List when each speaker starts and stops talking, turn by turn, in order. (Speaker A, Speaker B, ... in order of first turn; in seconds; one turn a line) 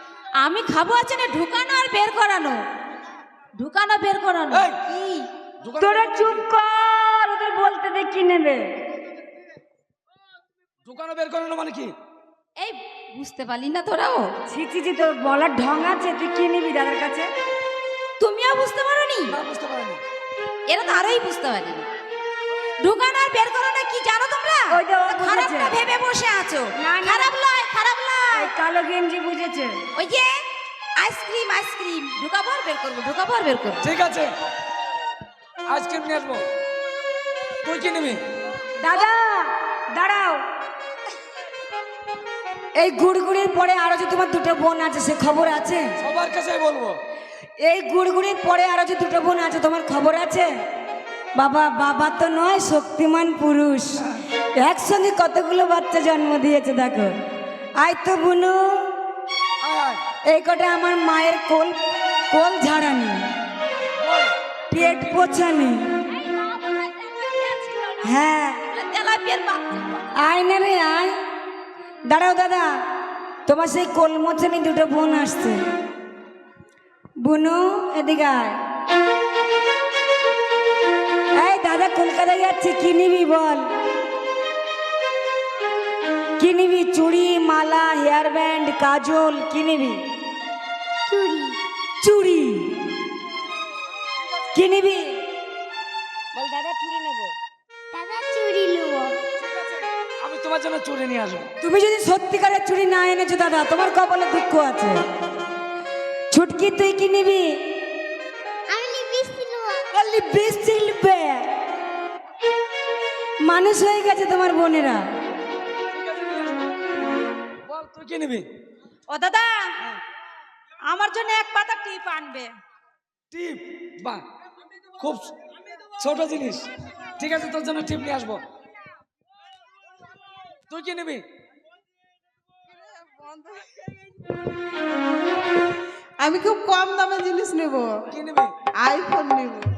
Speaker A: 0.4-2.6
Speaker A: 3.6-5.3
Speaker B: 4.5-4.8
Speaker B: 5.6-6.5
Speaker C: 5.8-8.8
Speaker B: 10.8-11.9
Speaker A: 12.6-14.3
Speaker C: 14.5-17.3
Speaker A: 18.2-19.4
Speaker B: 19.3-20.0
Speaker A: 20.7-21.9
Speaker A: 22.8-28.5
Speaker C: 24.7-25.8
Speaker C: 26.8-27.3
Speaker C: 28.3-29.8
Speaker A: 29.9-30.5
Speaker A: 31.0-33.9
Speaker B: 33.8-34.3
Speaker B: 35.7-36.5
Speaker B: 37.6-38.2
Speaker C: 38.8-40.4
Speaker C: 42.8-46.0
Speaker B: 46.0-47.0
Speaker C: 47.6-50.5
Speaker C: 51.4-57.1
Speaker C: 57.8-59.0
Speaker B: 59.6-60.0
Speaker C: 60.3-63.3
Speaker B: 64.0-64.3
Speaker C: 64.7-65.9
Speaker A: 66.0-70.1
Speaker C: 68.0-68.7
Speaker C: 70.2-71.2
Speaker C: 72.1-72.7
Speaker C: 73.5-75.6
Speaker C: 77.2-78.6
Speaker C: 81.3-83.7
Speaker C: 86.4-90.0
Speaker D: 91.1-91.6
Speaker C: 92.0-92.8
Speaker C: 94.5-95.2
Speaker C: 96.3-97.3
Speaker D: 97.9-99.2
Speaker B: 99.4-101.5
Speaker C: 101.6-105.0
Speaker C: 106.3-107.7
Speaker D: 108.7-109.8
Speaker C: 109.9-111.5
Speaker C: 113.4-115.0
Speaker B: 115.9-116.7
Speaker B: 117.7-118.5
Speaker A: 119.1-119.7
Speaker A: 120.9-122.5
Speaker B: 123.3-124.2
Speaker B: 125.0-125.3
Speaker B: 126.0-126.7
Speaker B: 127.2-128.4
Speaker B: 130.7-131.2
Speaker B: 138.1-138.5
Speaker D: 139.2-139.6